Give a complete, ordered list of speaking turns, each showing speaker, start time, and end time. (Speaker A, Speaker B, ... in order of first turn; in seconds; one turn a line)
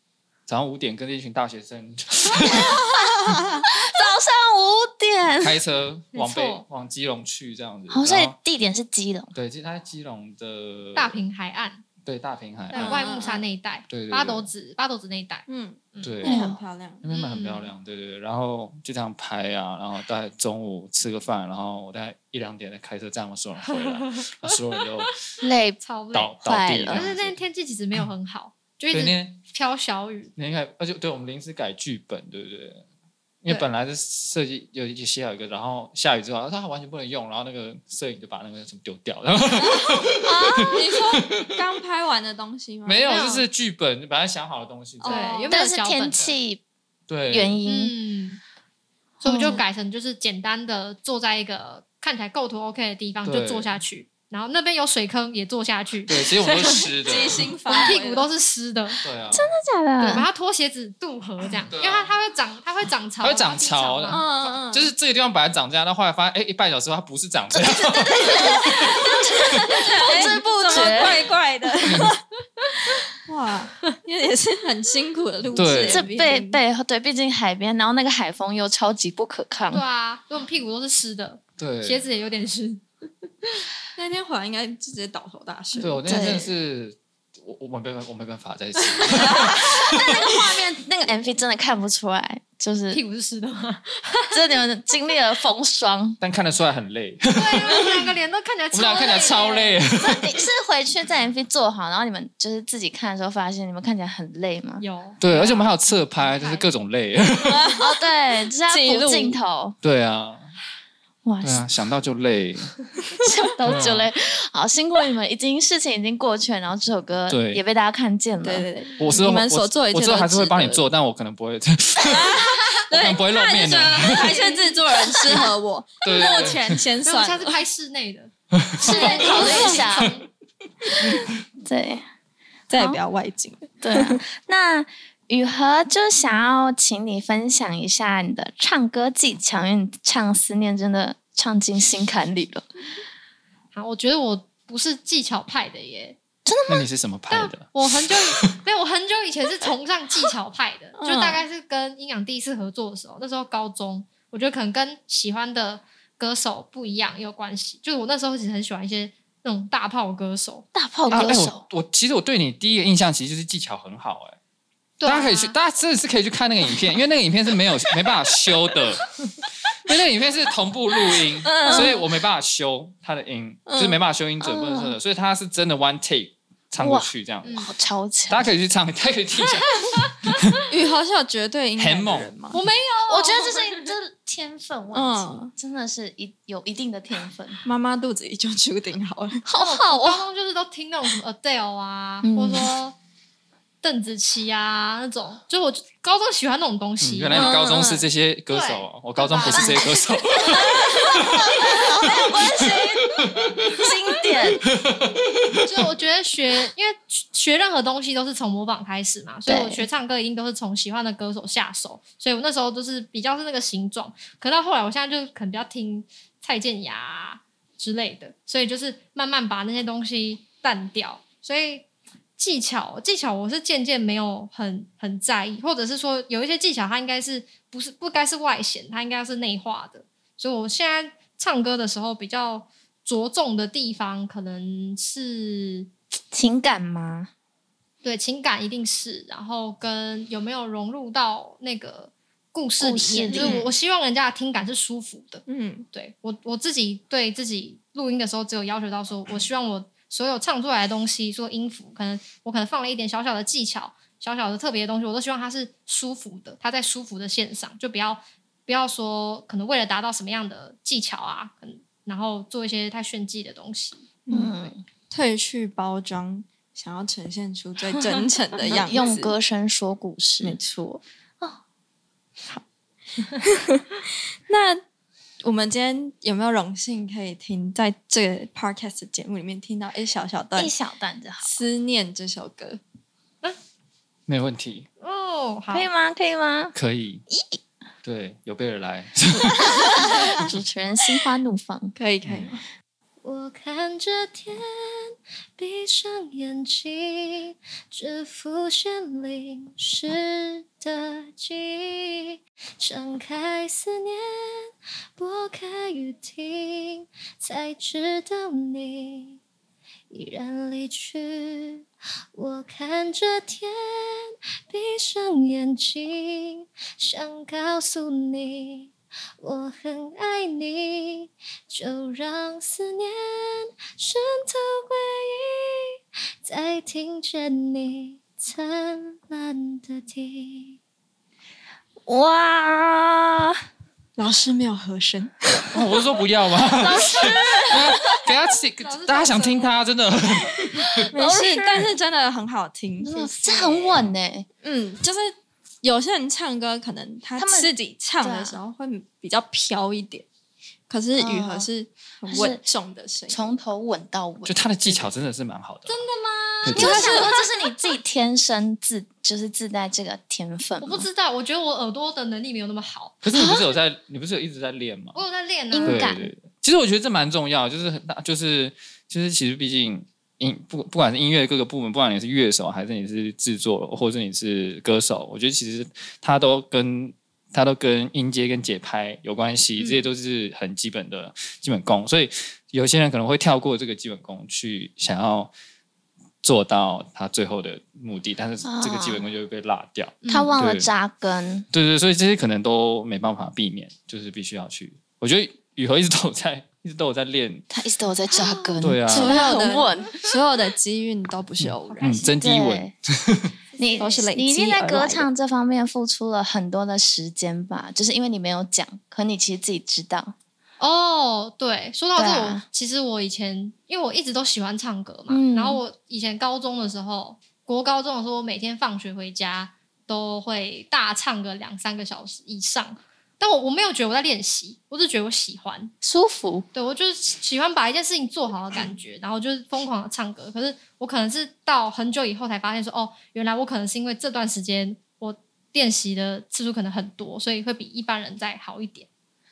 Speaker A: 0.5-2.9
Speaker B: 2.4-5.6
Speaker A: 5.4-8.3
Speaker C: 6.1-6.7
Speaker B: 7.9-9.3
Speaker A: 9.3-11.2
Speaker C: 10.9-11.8
Speaker A: 12.1-13.0
Speaker C: 12.7-16.2
Speaker D: 12.7-13.4
Speaker B: 12.8-13.1
Speaker A: 13.9-14.5
Speaker D: 15.5-17.0
Speaker A: 16.0-16.4
Speaker B: 16.2-16.6
Speaker A: 17.0-25.2
Speaker C: 17.1-17.7
Speaker C: 23.7-24.6
Speaker B: 25.4-25.8
Speaker C: 25.8-26.3
Speaker A: 26.1-27.4
Speaker B: 26.4-27.1
Speaker C: 26.9-30.3
Speaker A: 28.9-29.4
Speaker A: 30.4-32.8
Speaker A: 33.4-41.5
Speaker D: 39.6-43.0
Speaker A: 42.9-45.4
Speaker C: 43.1-43.5
Speaker D: 45.0-45.5
Speaker C: 45.0-46.4
Speaker B: 45.5-46.6
Speaker A: 47.1-47.6
Speaker B: 47.3-47.9
Speaker C: 47.7-48.4
Speaker C: 49.2-56.9
Speaker B: 49.2-49.6
Speaker A: 53.2-53.8
Speaker A: 56.1-57.5
Speaker D: 56.8-58.3
Speaker C: 57.7-59.0
Speaker A: 59.0-59.5
Speaker B: 59.3-60.3
Speaker C: 60.0-64.5
Speaker A: 61.7-62.1
Speaker A: 63.2-69.8
Speaker D: 64.1-64.9
Speaker B: 67.5-71.3
Speaker D: 68.4-68.7
Speaker D: 69.3-72.2
Speaker A: 71.8-72.1
Speaker D: 73.2-76.6
Speaker A: 75.5-76.0
Speaker B: 75.8-79.8
Speaker C: 79.7-82.8
Speaker A: 81.6-82.0
Speaker D: 84.0-86.5
Speaker A: 85.8-90.3
Speaker B: 86.1-86.5
Speaker D: 89.0-89.7
Speaker B: 89.3-93.0
Speaker C: 92.9-94.4
Speaker B: 94.3-96.2
Speaker A: 96.2-98.0
Speaker C: 97.3-99.8
Speaker A: 98.7-100.4
Speaker B: 100.0-104.8
Speaker C: 104.8-106.7
Speaker A: 105.2-107.8
Speaker D: 107.5-107.9
Speaker B: 107.8-109.8
Speaker D: 108.7-109.4
Speaker A: 109.8-110.5
Speaker B: 111.2-111.7
Speaker A: 111.4-112.9
Speaker B: 113.2-118.7
Speaker A: 113.6-114.1
Speaker A: 117.3-117.6
Speaker D: 118.4-120.8
Speaker A: 119.0-124.5
Speaker D: 122.0-127.6
Speaker C: 124.3-124.6
Speaker A: 126.0-126.8
Speaker C: 127.0-128.3
Speaker A: 128.5-130.1
Speaker B: 128.8-130.1
Speaker C: 128.8-130.2
Speaker D: 129.1-129.8
Speaker B: 131.6-132.1
Speaker D: 132.7-134.2
Speaker B: 132.7-133.0
Speaker B: 133.8-142.7
Speaker C: 143.7-146.2
Speaker B: 146.5-146.9
Speaker A: 146.7-148.5
Speaker C: 147.3-161.3
Speaker D: 151.0-151.4
Speaker B: 160.7-161.6
Speaker A: 161.1-164.4
Speaker C: 165.0-165.6
Speaker A: 165.0-169.1
Speaker A: 169.8-177.7
Speaker D: 171.4-172.0
Speaker C: 171.6-171.9
Speaker D: 173.7-174.0
Speaker B: 174.4-175.0
Speaker B: 176.8-178.5
Speaker C: 177.4-177.7
Speaker A: 178.3-180.4
Speaker D: 180.7-182.6
Speaker A: 181.8-182.3
Speaker C: 182.5-183.9
Speaker B: 183.1-187.6
Speaker D: 184.9-185.5
Speaker D: 187.7-189.4
Speaker B: 189.4-190.2
Speaker C: 189.6-193.0
Speaker B: 192.2-192.7
Speaker C: 193.8-197.6
Speaker A: 197.0-201.6
Speaker D: 197.3-198.1
Speaker C: 198.5-200.0
Speaker B: 199.4-204.6
Speaker A: 202.1-202.8
Speaker A: 203.3-203.7
Speaker A: 204.7-205.1
Speaker C: 205.6-221.9
Speaker B: 209.5-209.9
Speaker C: 222.4-235.9
Speaker B: 236.3-237.3
Speaker C: 238.0-264.0
Speaker B: 242.8-243.7
Speaker D: 243.3-243.7
Speaker D: 245.5-245.9
Speaker D: 264.3-269.3
Speaker B: 264.3-264.8
Speaker B: 268.6-270.6
Speaker D: 270.4-271.0
Speaker D: 273.4-273.8
Speaker D: 274.5-274.8
Speaker D: 275.4-280.7
Speaker B: 280.6-281.6
Speaker D: 281.4-282.8
Speaker A: 284.3-284.9
Speaker C: 285.0-285.9
Speaker B: 285.7-286.8
Speaker A: 286.8-287.2
Speaker B: 287.3-287.6
Speaker A: 288.0-290.1
Speaker B: 289.8-291.9
Speaker D: 292.0-292.6
Speaker A: 292.2-292.5
Speaker E: 293.2-294.5
Speaker E: 295.6-297.4
Speaker E: 297.9-302.1
Speaker E: 302.8-304.3
Speaker E: 305.2-309.3
Speaker E: 310.1-311.8
Speaker E: 312.4-314.2
Speaker E: 314.7-318.9
Speaker E: 319.4-325.5
Speaker E: 326.4-330.6
Speaker B: 332.1-333.6
Speaker D: 334.2-335.8
Speaker A: 335.7-341.1
Speaker B: 336.8-338.2
Speaker C: 338.8-339.8
Speaker B: 341.1-341.9
Speaker D: 341.1-344.0
Speaker B: 343.0-344.5
Speaker D: 344.6-350.3
Speaker B: 347.4-348.6
Speaker D: 350.9-353.5
Speaker B: 351.2-351.7
Speaker B: 352.3-352.6
Speaker B: 353.3-355.0
Speaker A: 354.4-356.0
Speaker C: 355.9-357.4
Speaker A: 356.6-357.0
Speaker B: 356.7-361.1
Speaker D: 356.8-357.3
Speaker C: 360.8-363.2
Speaker A: 363.2-365.2
Speaker B: 363.3-363.7
Speaker C: 365.1-366.1
Speaker B: 365.7-366.3
Speaker A: 365.8-385.5
Speaker A: 386.4-390.9
Speaker B: 388.6-389.2
Speaker C: 390.2-390.6
Speaker B: 390.3-391.7
Speaker A: 391.7-397.6
Speaker B: 397.7-400.2
Speaker A: 398.8-399.4
Speaker D: 399.1-402.2
Speaker C: 399.4-399.8
Speaker A: 401.6-403.5
Speaker C: 401.9-402.3
Speaker B: 402.4-402.9
Speaker C: 403.8-404.2
Speaker B: 403.8-410.4
Speaker D: 404.0-405.3
Speaker C: 410.8-425.9
Speaker B: 412.2-412.6
Speaker B: 415.3-415.8
Speaker B: 426.0-426.7
Speaker C: 426.7-439.1